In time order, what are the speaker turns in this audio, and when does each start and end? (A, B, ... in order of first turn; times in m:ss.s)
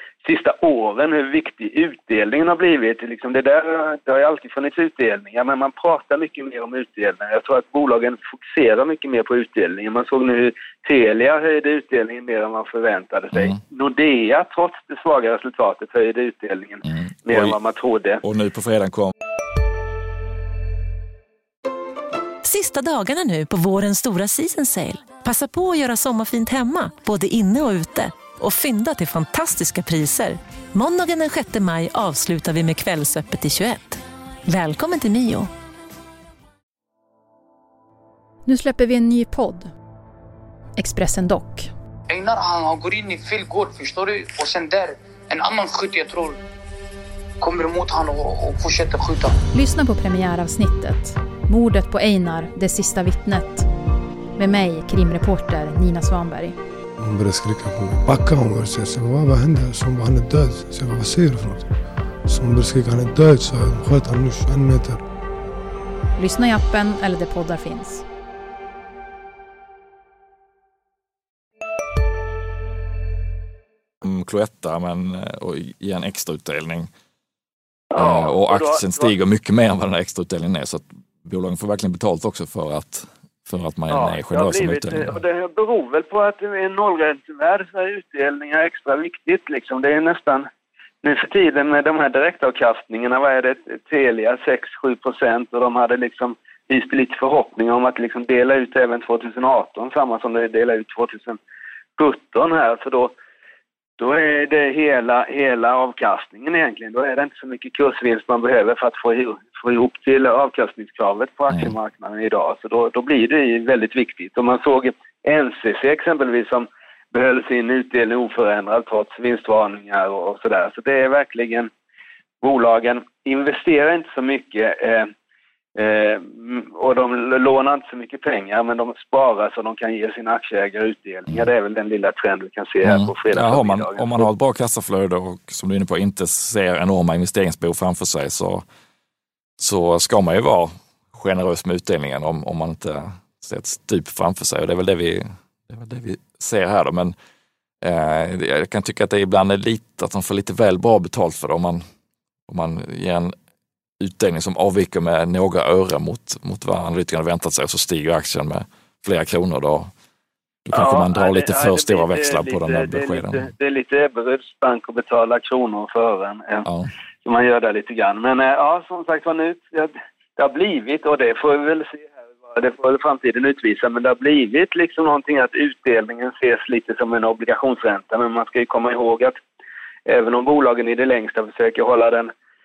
0:00.2-0:18.2 A
0:16.8-0:17.6 B
0:18.2-0:19.1 B
0:22.4-0:35.5 C
0:38.4-0:39.7 D
0:40.8-0:41.7 D
0:42.1-0:46.4 E
0:47.4-0:49.4 E
0:49.5-0:53.7 D
0:54.4-0:56.6 D
0:57.0-1:01.7 F
1:02.2-1:05.0 F
1:06.2-1:08.0 D
1:14.0-1:16.9 B
1:17.9-1:19.1 A
1:18.0-1:25.1 B
1:23.9-1:30.5 A
1:31.0-1:41.4 A
1:42.0-1:43.1 A
1:44.0-2:01.7 A
2:02.4-2:05.1 A
2:05.8-2:14.3 A
2:12.8-2:18.6 B
2:19.6-2:27.1 B
2:27.8-2:31.8 B
2:32.5-2:33.3 B
2:34.0-2:39.9 B
2:40.6-2:43.5 B
2:40.7-2:46.6 A
2:46.6-2:46.9 B
2:47.2-2:59.4 A
3:00.0-3:02.3 A